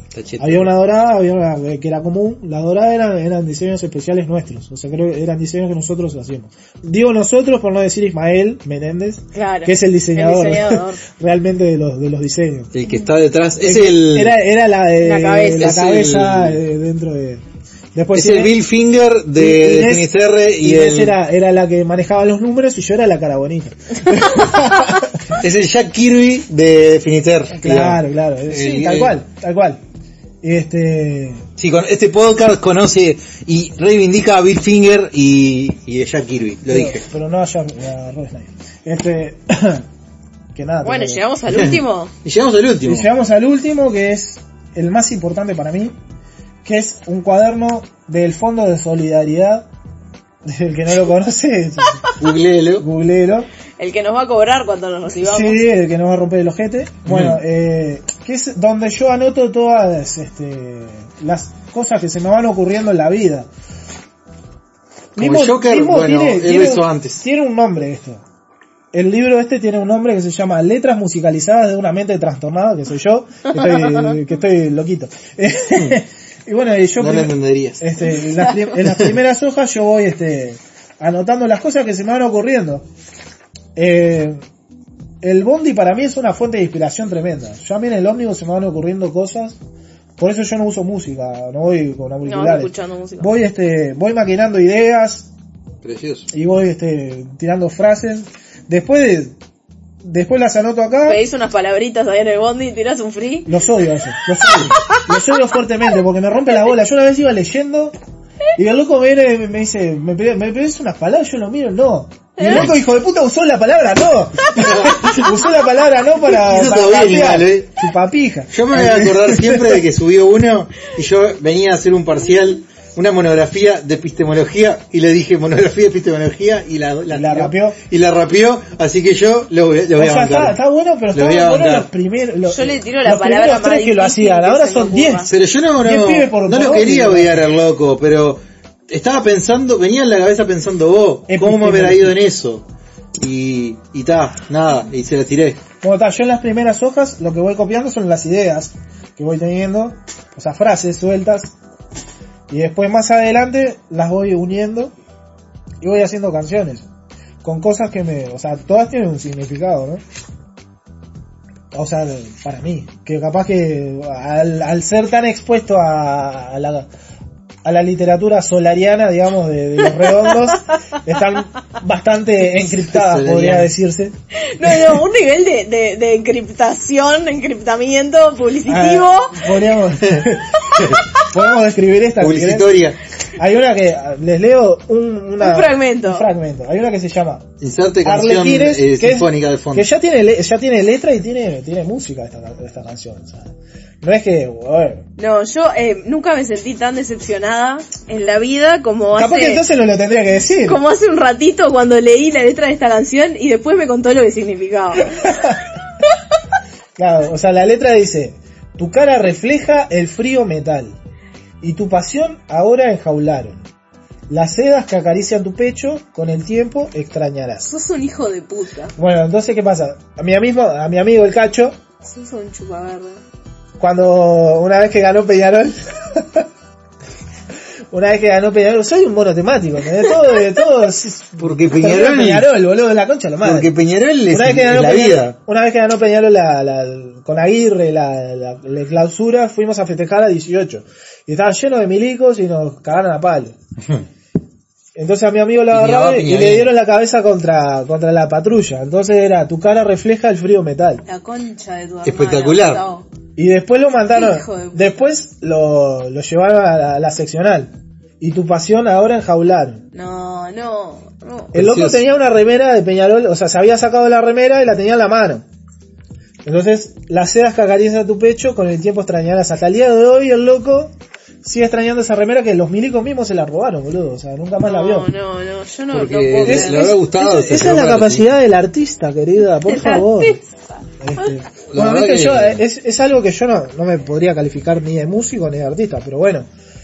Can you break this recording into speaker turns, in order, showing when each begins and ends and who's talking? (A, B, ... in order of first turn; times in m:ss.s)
0:00.1-0:00.7 A
0:00.4-0:12.7 B
0:09.4-0:11.0 C
0:12.7-0:14.4 A
0:13.6-0:17.4 B
0:15.0-0:15.8 C
0:15.6-0:16.6 A
0:18.0-0:18.6 B
0:18.1-0:21.2 A
0:19.4-0:25.4 B
0:25.3-0:29.2 A
0:27.5-0:29.8 B
0:30.4-0:31.4 B
0:31.6-0:37.0 A
0:36.7-0:39.9 B
0:40.6-0:41.2 B
0:40.8-0:42.1 C
0:41.5-0:43.1 A
0:42.8-0:46.0 B
0:46.6-0:49.7 B
0:50.4-0:52.2 B
0:52.2-0:52.9 A
0:52.8-0:53.5 B
0:53.8-0:55.6 C
0:55.2-1:03.5 B
0:57.1-0:57.4 A
1:05.2-1:08.2 B
1:05.2-1:07.2 A
1:08.9-1:22.9 B
1:17.0-1:17.9 A
1:18.8-1:19.1 A
1:23.8-1:24.4 B
1:25.2-1:29.6 B
1:30.2-1:35.3 B
1:32.2-1:33.4 C
1:35.8-1:36.3 A
1:36.3-1:39.4 B
1:40.0-1:41.2 B
1:41.1-1:43.5 C
1:43.5-1:47.9 B
1:44.5-1:44.7 A
1:48.6-1:59.8 B
1:52.4-1:52.7 C
1:52.4-1:52.7 A
1:54.5-1:55.5 A
1:56.2-1:57.7 A
1:58.5-2:10.6 A
2:07.1-2:07.8 B
2:10.0-2:17.5 B
2:11.1-2:11.9 A
2:12.5-2:15.3 C
2:15.3-2:22.6 A
2:21.3-2:22.2 B
2:23.2-2:25.6 A
2:25.8-2:31.6 B
2:32.5-2:34.9 B
2:35.8-2:36.8 B
2:37.4-2:40.0 B
2:41.7-2:46.9 B
2:47.6-2:54.1 B
2:50.0-2:50.6 C
2:52.6-2:53.7 A
2:54.5-2:59.5 C
2:54.6-2:54.9 B
2:58.7-3:02.8 B
3:00.0-3:01.0 A
3:02.2-3:03.0 A
3:03.4-3:07.5 B
3:05.4-3:06.3 C
3:07.6-3:09.9 A
3:08.0-3:15.0 B
3:15.2-3:19.6 C
3:19.2-3:20.8 B
3:20.6-3:25.2 C
3:25.0-3:25.7 B
3:27.0-3:31.0 B
3:31.6-3:33.7 B
3:34.3-3:37.7 B
3:37.7-3:38.9 C
3:39.0-3:41.8 B
3:42.0-3:43.2 C
3:43.8-3:46.5 B
3:47.9-3:53.7 B
3:51.4-3:52.5 A
3:53.4-3:55.4 A
3:54.3-4:03.6 B
4:05.0-4:11.0 B
4:05.7-4:06.7 A
4:11.1-4:13.1 C
4:12.0-4:12.8 A
4:13.4-4:19.8 B
4:14.1-4:15.0 C
4:19.9-4:21.5 C
4:21.5-4:22.0 A
4:21.5-4:25.4 B
4:26.4-4:35.1 B
4:34.6-4:37.0 C
4:35.9-4:38.4 A
4:36.4-4:40.4 B
4:39.6-4:40.5 C
4:41.0-4:46.5 B
4:41.7-4:42.6 A